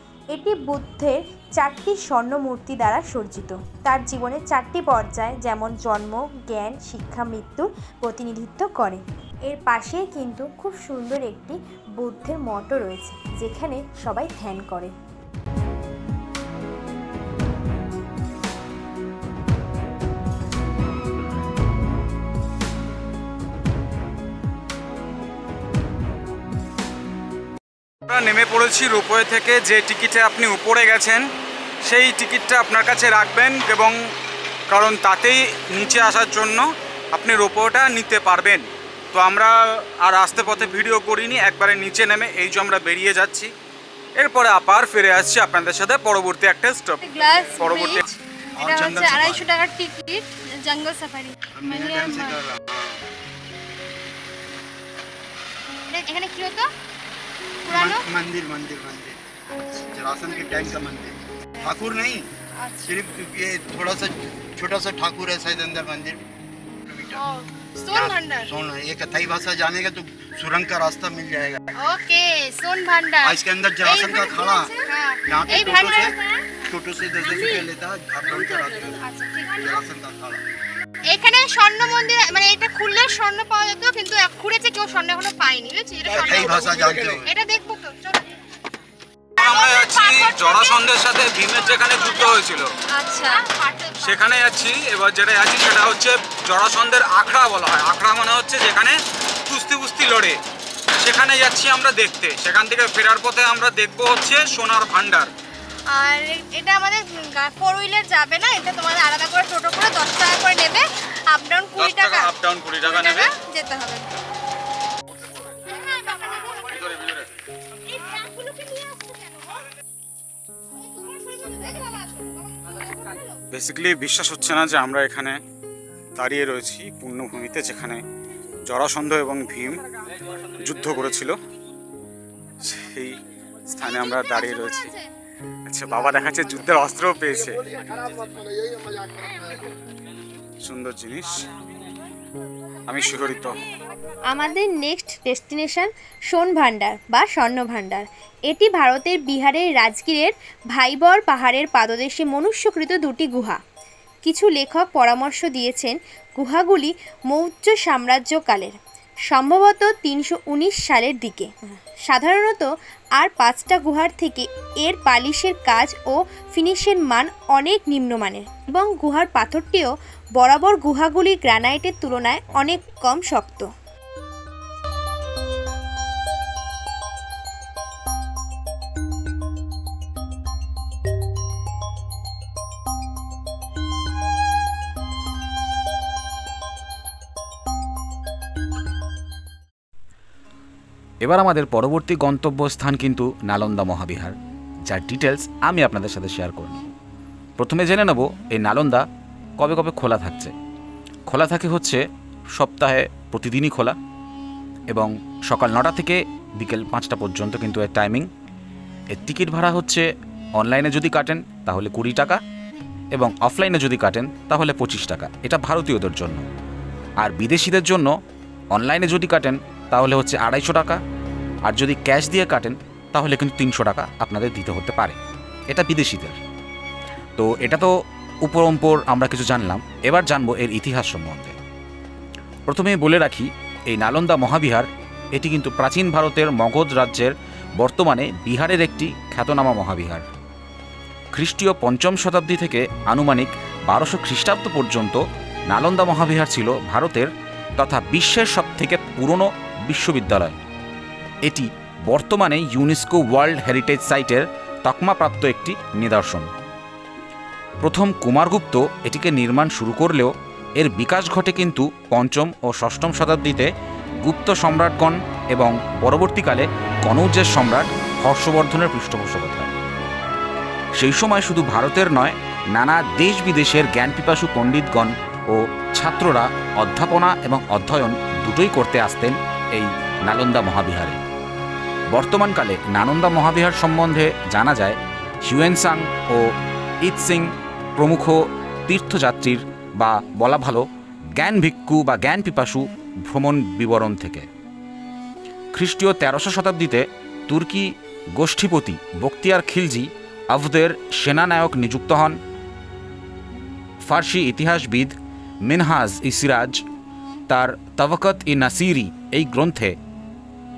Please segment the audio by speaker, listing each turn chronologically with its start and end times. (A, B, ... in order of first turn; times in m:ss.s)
0:00.3-0:14.9 A
0:28.0-0:31.2 B
0:31.8-0:33.9 B
0:34.7-0:43.5 B
0:44.2-0:48.0 B
0:47.0-0:52.3 C
0:48.6-0:49.5 D
0:51.5-0:53.0 D
0:55.9-0:56.7 C
0:57.6-0:58.0 C
0:57.7-0:59.2 D
0:59.8-1:02.3 D
1:00.3-1:00.7 C
1:02.6-1:03.0 C
1:02.8-1:06.2 D
1:06.8-1:07.2 D
1:07.1-1:08.5 C
1:07.9-1:11.6 D
1:11.8-1:16.5 C
1:13.2-1:14.7 D
1:15.2-1:19.0 D
1:17.2-1:17.7 C
1:18.4-1:19.8 C
1:19.6-1:20.4 D
1:21.1-1:28.3 C
1:26.1-1:27.3 D
1:29.3-1:32.7 B
1:29.4-1:30.9 C
1:31.6-1:32.4 C
1:33.0-1:34.2 C
1:34.0-1:40.4 B
1:41.0-1:45.3 B
1:45.9-1:52.3 C
1:51.8-1:53.3 B
1:52.8-1:54.1 C
1:58.2-1:59.1 C
2:03.5-2:05.4 B
2:06.2-2:08.0 B
2:08.7-2:09.8 B
2:10.6-2:11.4 B
2:12.6-2:13.2 B
2:13.7-2:14.9 B
2:15.7-2:17.6 B
2:20.6-2:21.4 B
2:22.9-2:23.6 B
2:24.3-2:33.6 A
2:34.2-2:38.8 A
2:39.3-2:53.7 A
3:11.2-3:14.4 E
3:14.9-3:16.9 E
3:17.6-3:19.0 E
3:19.6-3:20.5 E
3:21.3-3:22.0 E
3:22.6-3:24.0 E
3:24.9-3:28.3 E
3:29.1-3:30.1 E
3:30.6-3:32.4 E
3:33.1-3:36.4 E
3:37.2-3:38.1 E
3:38.7-3:41.0 E
3:41.6-3:45.2 E
3:45.7-3:46.4 E
3:47.4-3:47.9 E
3:48.4-3:51.6 E
3:52.7-4:00.2 E
4:01.3-4:10.6 E
4:11.4-4:16.5 E
4:17.8-4:23.7 E
4:24.2-4:29.7 E
4:31.0-4:41.2 E
4:42.1-4:46.5 E
4:47.0-4:54.5 E
4:55.7-5:02.4 E
5:04.0-5:06.8 E
5:07.5-5:10.0 E